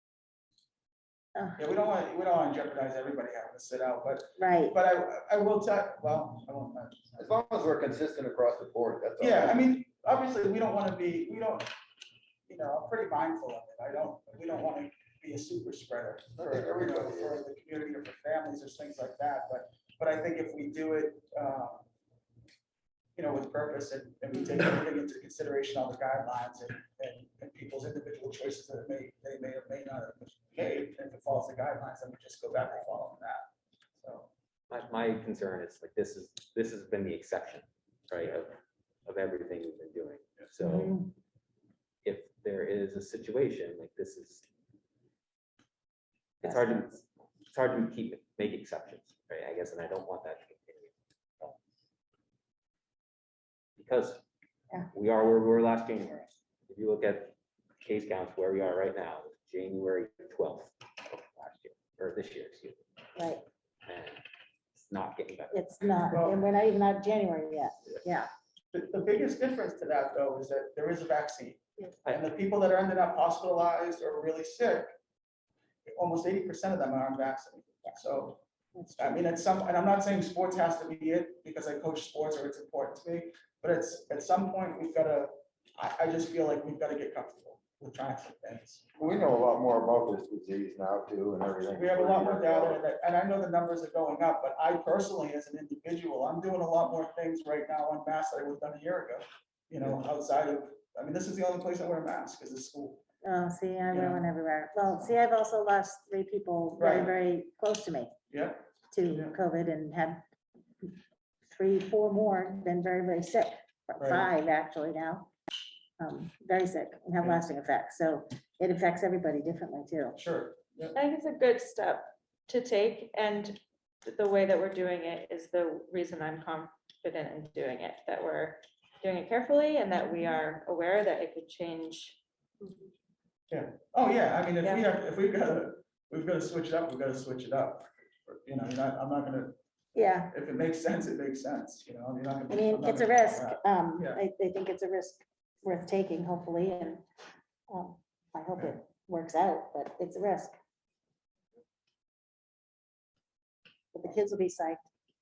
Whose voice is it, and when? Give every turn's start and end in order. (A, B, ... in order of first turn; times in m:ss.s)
0:01.4-0:01.6 A
0:01.6-0:07.3 B
0:04.4-0:04.8 A
0:07.2-0:09.6 C
0:09.2-0:11.7 B
0:12.5-0:21.9 B
0:16.4-0:17.4 C
0:23.2-0:33.5 B
0:34.0-0:34.3 B
0:34.7-0:41.0 D
0:40.6-0:41.1 A
0:42.0-0:44.4 D
0:46.4-0:51.6 D
0:46.4-0:46.9 A
0:53.8-0:54.2 D
0:54.9-1:02.8 D
1:03.2-1:03.4 A
1:03.9-1:04.2 D
1:04.7-1:05.6 D
1:05.5-1:08.3 A
1:06.1-1:06.4 B
1:08.7-1:15.0 B
1:15.9-1:18.4 B
1:18.8-1:19.2 A
1:19.0-1:29.3 B
1:29.0-1:32.8 C
1:31.7-1:43.0 B
1:43.2-1:48.1 A
1:43.9-1:44.2 B
1:46.8-1:47.1 B
1:48.3-1:49.4 B
1:48.9-1:50.2 A
1:51.5-1:55.3 A
1:54.0-1:54.3 B
1:56.0-2:00.2 A
2:00.2-2:01.0 B
2:01.0-2:12.7 E
2:13.5-2:19.6 B
2:14.6-2:14.9 E
2:20.0-2:20.3 A
2:20.3-2:24.2 B
2:22.5-2:27.0 A
2:27.7-2:30.6 A
2:33.9-2:34.8 A